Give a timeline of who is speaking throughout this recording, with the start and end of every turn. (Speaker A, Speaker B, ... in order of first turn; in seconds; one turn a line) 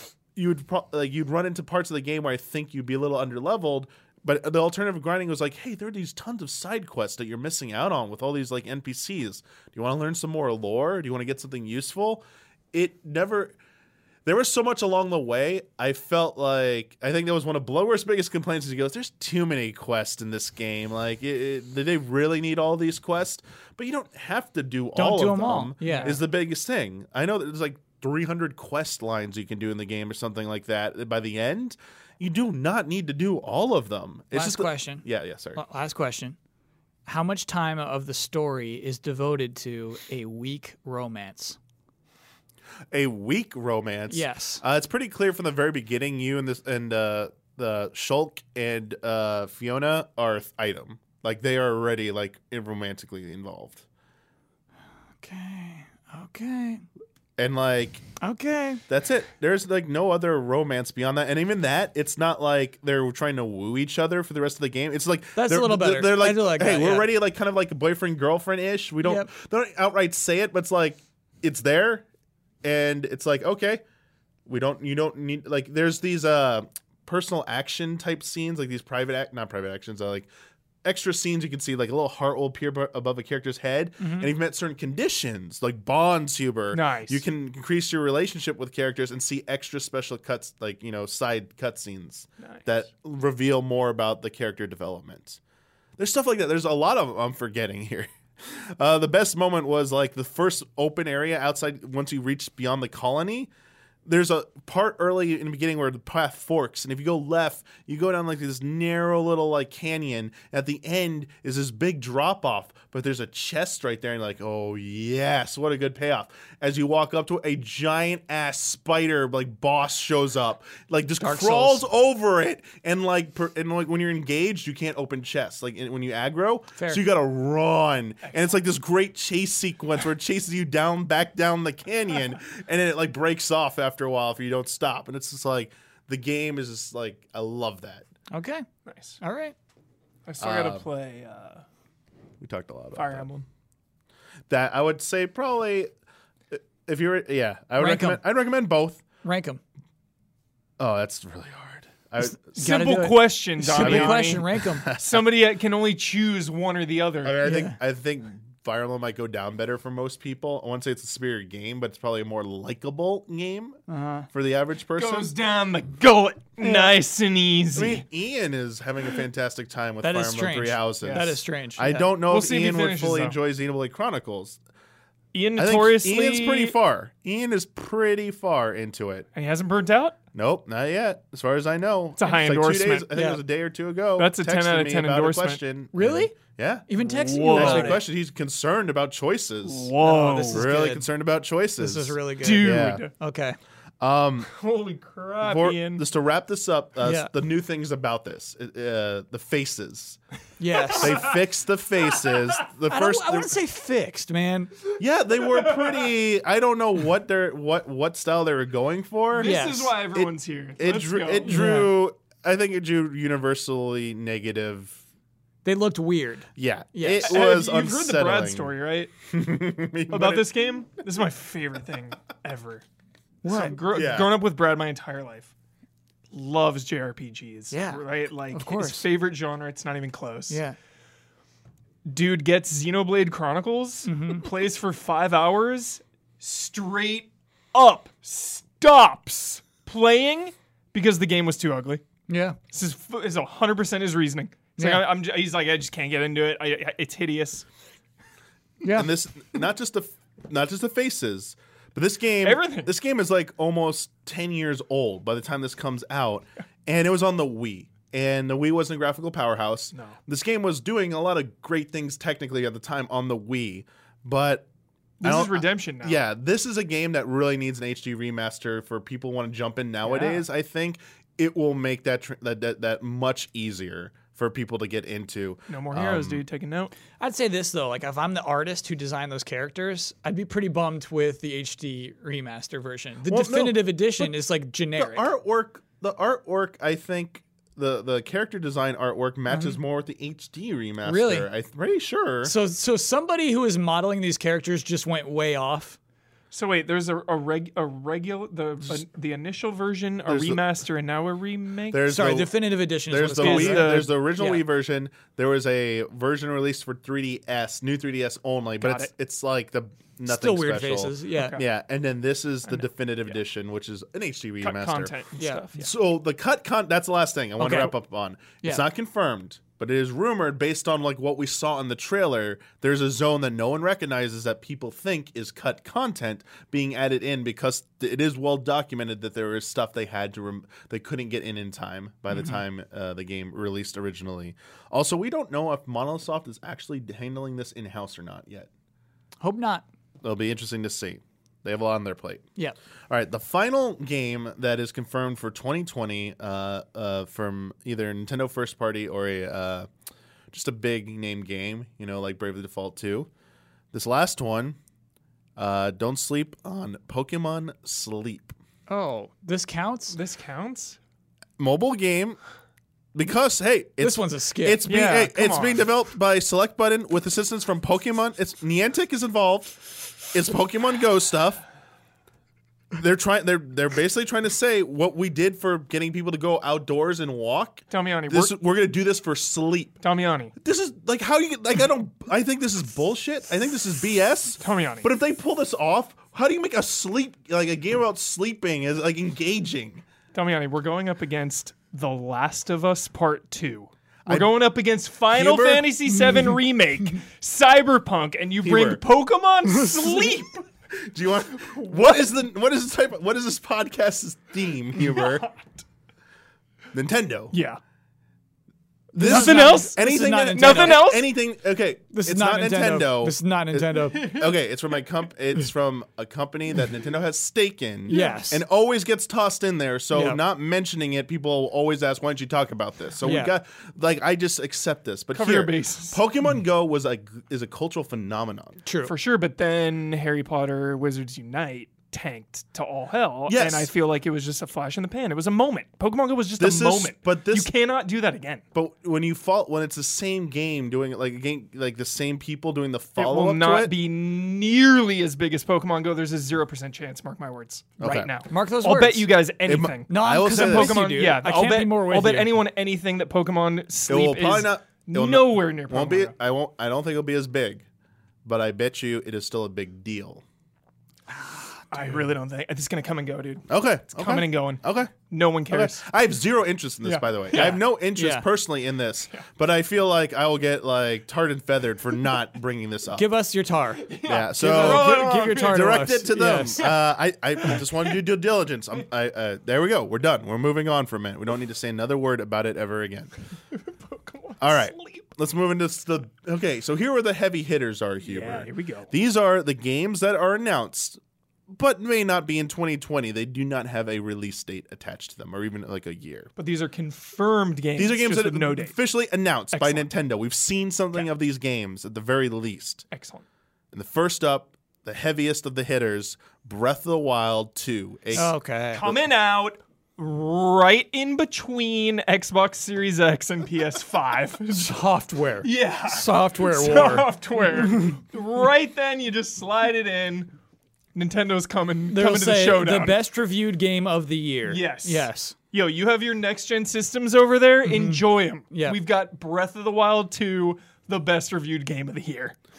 Speaker A: 0.3-13.6
Speaker A: 14.2-35.6
Speaker B: 24.9-26.2
Speaker C: 25.8-26.2
Speaker B: 34.3-36.4
Speaker B: 37.1-41.6
Speaker A: 42.9-53.9
Speaker B: 44.1-44.6
Speaker B: 55.2-56.8
Speaker A: 57.4-58.1
Speaker B: 58.2-58.8
Speaker A: 58.9-72.0
Speaker B: 65.4-67.1
Speaker B: 69.0-69.3
Speaker A: 72.6-73.8
Speaker A: 74.5-80.3
Speaker A: 80.8-95.4
Speaker B: 84.0-84.3
Speaker C: 86.7-87.2
Speaker C: 92.4-92.7
Speaker A: 96.0-103.5
Speaker A: 104.1-138.1
Speaker B: 121.2-121.8
Speaker B: 126.8-127.0
Speaker B: 138.3-138.7
Speaker C: 138.9-139.2
Speaker B: 139.2-139.6
Speaker C: 140.3-141.6
Speaker A: 140.4-140.9
Speaker A: 142.4-143.3
Speaker C: 143.0-143.4
Speaker A: 144.5-145.9
Speaker A: 146.5-149.0
Speaker B: 147.8-148.2
Speaker B: 149.2-149.6
Speaker A: 150.8-152.6
Speaker B: 152.2-154.9
Speaker C: 152.6-157.4
Speaker A: 153.8-155.3
Speaker A: 157.2-165.3
Speaker B: 157.4-157.8
Speaker B: 163.9-164.3
Speaker C: 165.0-168.0
Speaker A: 166.6-166.9
Speaker A: 167.7-174.6
Speaker B: 170.0-172.1
Speaker C: 171.0-171.4
Speaker C: 172.3-173.4
Speaker C: 175.3-176.8
Speaker A: 175.6-179.3
Speaker C: 179.3-180.2
Speaker A: 180.3-186.9
Speaker C: 182.2-183.1
Speaker B: 183.1-183.4
Speaker C: 184.2-185.6
Speaker B: 185.9-186.4
Speaker B: 186.9-188.0
Speaker C: 187.0-188.0
Speaker A: 187.4-189.9
Speaker C: 189.7-190.7
Speaker B: 190.0-191.1
Speaker A: 190.5-193.1
Speaker B: 191.8-193.6
Speaker C: 192.4-193.1
Speaker A: 194.0-194.5
Speaker C: 194.5-196.0
Speaker A: 195.4-200.2
Speaker B: 197.0-197.3
Speaker B: 200.6-201.3
Speaker C: 200.7-201.4
Speaker A: 201.0-203.5
Speaker B: 202.9-204.7
Speaker A: 205.0-209.5
Speaker C: 209.3-211.6
Speaker B: 209.4-209.9
Speaker A: 210.1-215.0
Speaker B: 211.4-211.9
Speaker B: 215.6-217.3
Speaker A: 216.6-218.7
Speaker C: 217.2-219.1
Speaker A: 219.3-220.5
Speaker C: 220.1-222.8
Speaker B: 223.4-223.8
Speaker C: 223.5-225.5
Speaker A: 223.9-224.3
Speaker C: 226.3-230.6
Speaker B: 227.7-228.0
Speaker B: 228.5-229.0
Speaker B: 230.5-230.8
Speaker C: 232.1-242.0
Speaker B: 234.1-234.4
Speaker B: 242.3-242.6
Speaker C: 242.7-247.7
Speaker B: 244.8-245.1
Speaker B: 248.8-249.1
Speaker A: 248.9-264.7
Speaker C: 252.4-252.9
Speaker C: 265.2-266.2
Speaker A: 265.2-276.4
Speaker C: 270.0-270.4
Speaker C: 275.7-276.9
Speaker B: 277.2-285.3
Speaker A: 283.3-284.3
Speaker A: 285.0-292.5
Speaker B: 289.5-289.8
Speaker B: 291.1-291.5
Speaker B: 292.4-296.0
Speaker C: 296.5-302.1
Speaker A: 300.3-300.6
Speaker A: 301.9-315.1
Speaker B: 302.1-304.6
Speaker C: 303.4-304.1
Speaker C: 308.8-309.1
Speaker B: 310.3-311.6
Speaker C: 311.4-311.6
Speaker C: 312.7-313.4
Speaker C: 314.6-315.9
Speaker B: 315.4-315.6
Speaker A: 315.8-338.7
Speaker B: 317.6-317.9
Speaker B: 332.3-332.6
Speaker B: 339.4-339.9
Speaker A: 340.2-342.5
Speaker A: 343.1-349.9
Speaker A: 350.5-353.3
Speaker A: 353.9-354.8
Speaker A: 355.6-358.6
Speaker B: 358.9-360.2
Speaker C: 360.1-361.0
Speaker A: 361.6-362.4
Speaker A: 363.1-371.6
Speaker B: 364.0-364.9
Speaker C: 364.9-365.9
Speaker A: 372.9-380.0
Speaker C: 377.9-378.5
Speaker C: 380.0-380.5
Speaker A: 380.6-390.0
Speaker C: 384.6-385.1
Speaker C: 390.3-400.7
Speaker A: 394.3-394.6
Speaker A: 395.3-395.9
Speaker A: 398.6-399.0
Speaker A: 400.9-405.5
Speaker C: 405.0-405.7
Speaker A: 406.9-407.6
Speaker C: 407.5-407.8
Speaker A: 409.1-428.8
Speaker C: 409.2-411.3
Speaker B: 409.2-411.2
Speaker B: 412.1-414.4
Speaker C: 414.1-414.6
Speaker B: 418.1-418.6
Speaker C: 418.1-418.4
Speaker B: 420.1-420.4
Speaker B: 423.2-423.5
Speaker C: 425.3-426.2
Speaker B: 428.9-429.1
Speaker C: 429.0-438.6
Speaker A: 433.5-433.9
Speaker A: 436.6-437.7
Speaker A: 438.7-443.9
Speaker C: 443.2-456.4
Speaker A: 448.0-448.3
Speaker B: 448.0-449.3
Speaker A: 449.7-451.0
Speaker B: 450.1-452.6
Speaker A: 454.1-457.9
Speaker A: 458.4-460.4
Speaker B: 461.3-462.0
Speaker C: 461.9-466.0
Speaker A: 463.7-465.1
Speaker A: 465.7-473.3
Speaker C: 467.0-467.8
Speaker B: 467.5-468.5
Speaker B: 473.2-476.9
Speaker C: 474.0-476.1
Speaker A: 474.2-483.3
Speaker C: 477.6-478.0
Speaker C: 484.0-485.2
Speaker A: 484.6-491.2
Speaker C: 488.2-489.1
Speaker A: 491.7-496.5
Speaker C: 496.6-498.9
Speaker A: 498.0-503.1
Speaker C: 499.7-500.1
Speaker C: 503.1-503.4
Speaker A: 503.9-508.5
Speaker B: 508.4-509.1
Speaker C: 508.4-515.0
Speaker B: 514.7-517.3
Speaker C: 515.6-520.5
Speaker C: 521.1-523.2
Speaker B: 522.1-525.6
Speaker C: 524.7-532.6
Speaker B: 527.8-529.0